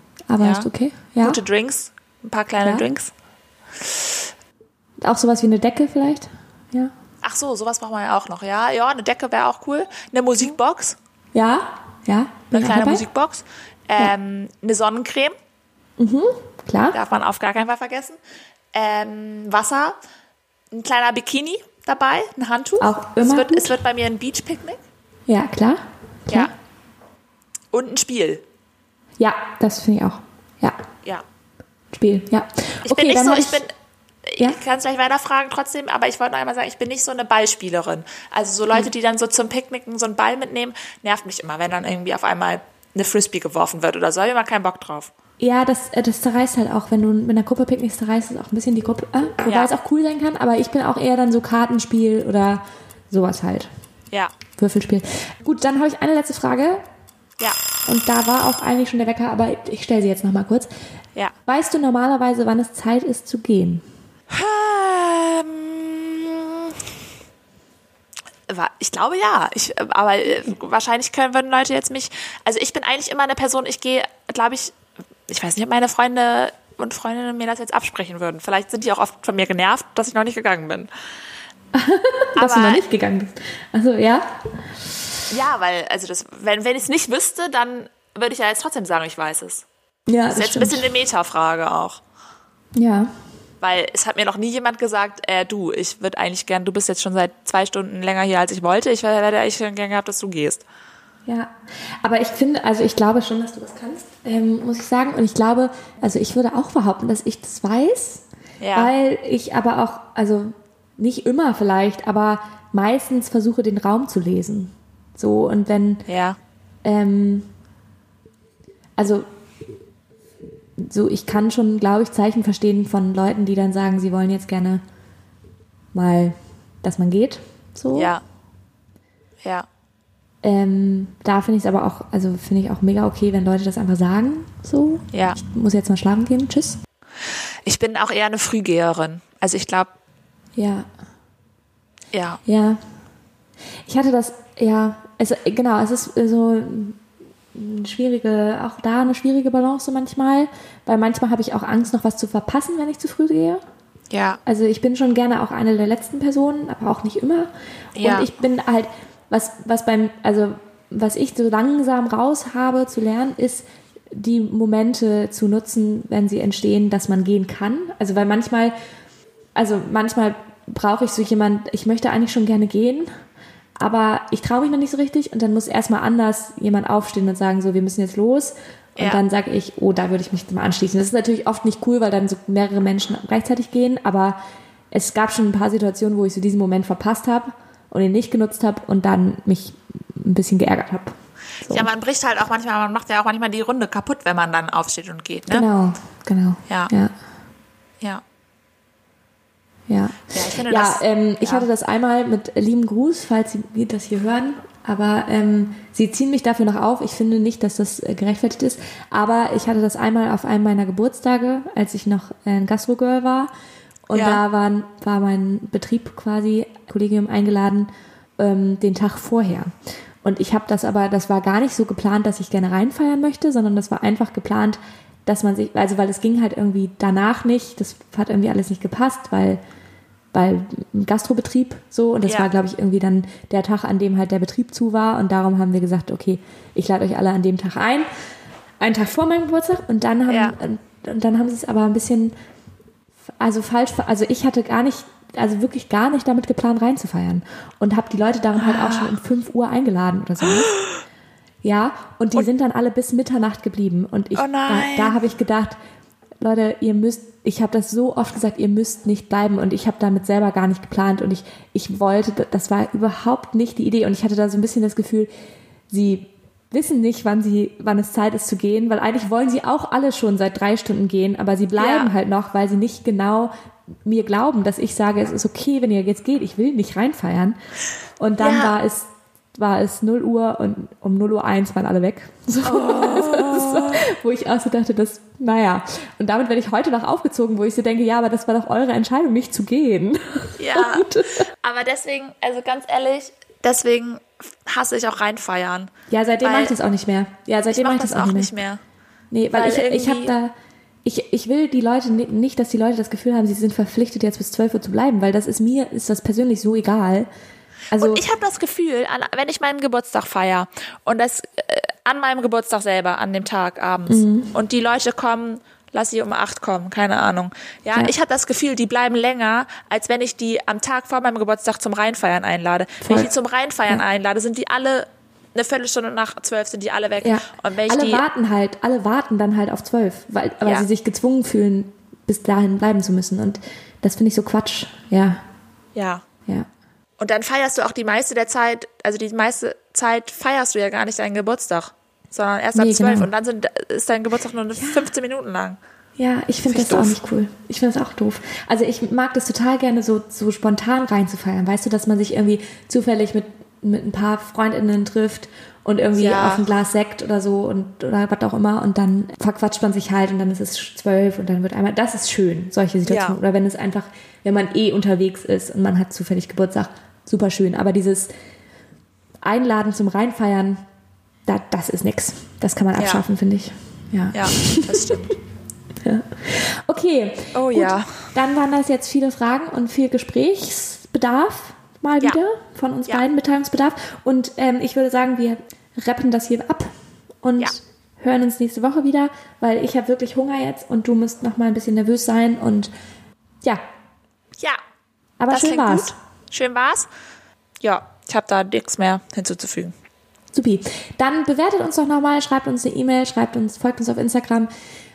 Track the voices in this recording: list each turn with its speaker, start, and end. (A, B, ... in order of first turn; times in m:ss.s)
0:00.3-0:01.4 A
0:00.4-0:00.7 B
0:01.2-0:03.1 B
0:03.8-0:04.2 B
0:05.0-0:06.9 A
0:07.2-0:11.0 B
0:11.3-0:13.0 A
0:12.5-0:15.3 B
0:16.0-0:17.0 A
0:16.9-0:18.2 B
0:18.7-0:20.0 B
0:20.7-0:24.8 B
0:22.8-0:23.7 A
0:25.3-0:26.5 A
0:27.7-0:28.4 B
0:29.2-0:30.8 A
0:31.9-0:33.6 A
0:32.8-0:33.7 B
0:34.3-0:45.1 B
0:45.4-0:53.7 A
0:49.4-0:49.7 B
0:54.6-0:56.8 A
0:57.9-1:00.7 A
1:01.4-1:03.8 A
1:04.3-1:06.9 B
1:08.5-1:14.8 B
1:15.3-1:20.9 B
1:21.7-1:24.3 A
1:22.4-1:22.8 B
1:25.3-1:29.6 B
1:30.1-1:30.9 A
1:30.3-1:32.0 B
1:32.8-1:33.1 A
1:33.6-1:40.6 B
1:41.3-1:41.5 A
1:42.0-1:48.2 A
1:48.6-1:48.9 B
1:48.8-1:56.1 A
1:56.1-1:56.4 B
1:56.8-1:57.5 A
1:59.0-1:59.3 A
2:00.8-2:04.8 A
2:05.9-2:08.2 A
2:07.9-2:08.2 B
2:09.4-2:09.7 B
2:10.4-2:16.8 A
2:15.1-2:15.4 B
2:17.7-2:19.9 B
2:20.6-2:20.9 A
2:22.1-2:22.4 B
2:22.4-2:22.8 A
2:23.9-2:27.0 A
2:27.5-2:33.6 A
2:34.1-2:34.4 B
2:34.4-2:48.8 A
2:38.0-2:38.3 B
2:49.6-2:53.1 A
2:53.8-3:04.4 A
2:59.0-2:59.2 B
3:04.9-3:11.9 A
3:11.7-3:15.6 B
3:15.5-3:17.1 A
3:19.9-3:33.5 A
3:20.3-3:21.7 B
3:34.1-3:39.7 A
3:34.1-3:34.4 B
3:40.2-3:49.6 A
3:50.3-3:58.1 A
3:58.8-4:02.3 A
4:00.3-4:00.6 B
4:03.4-4:10.7 A
4:08.6-4:09.1 B
4:10.4-4:11.0 B
4:11.6-4:15.8 A
4:14.4-4:15.2 B
4:16.4-4:25.3 A
4:25.9-4:33.5 A
4:31.8-4:32.1 B
4:34.1-4:37.6 A
4:38.2-4:51.4 A
4:38.4-4:38.8 B
4:42.6-4:44.0 B
4:50.6-4:55.9 B
4:56.1-4:58.5 A
4:56.4-4:56.8 B
4:57.7-4:58.8 B
4:59.3-5:00.5 A
4:59.5-5:00.3 B
5:01.0-5:07.3 A
5:07.9-5:08.2 A
5:07.9-5:28.2 B
5:14.1-5:14.6 A
5:23.0-5:23.3 A
5:27.2-5:35.4 A
5:36.0-5:36.2 B
5:37.2-5:45.8 B
5:42.8-5:43.3 A
5:44.8-5:45.1 A
5:46.2-6:08.3 A
5:46.7-5:47.2 B
5:56.2-5:56.6 B
6:03.0-6:03.4 B
6:09.4-6:10.8 A
6:11.4-6:15.1 A
6:13.0-6:13.2 B
6:14.3-6:15.4 B
6:16.0-6:26.9 A
6:17.5-6:18.1 B
6:27.4-6:32.9 A
6:35.4-6:36.2 A
6:35.5-6:37.1 B
6:37.8-6:39.9 B
6:40.5-6:44.7 A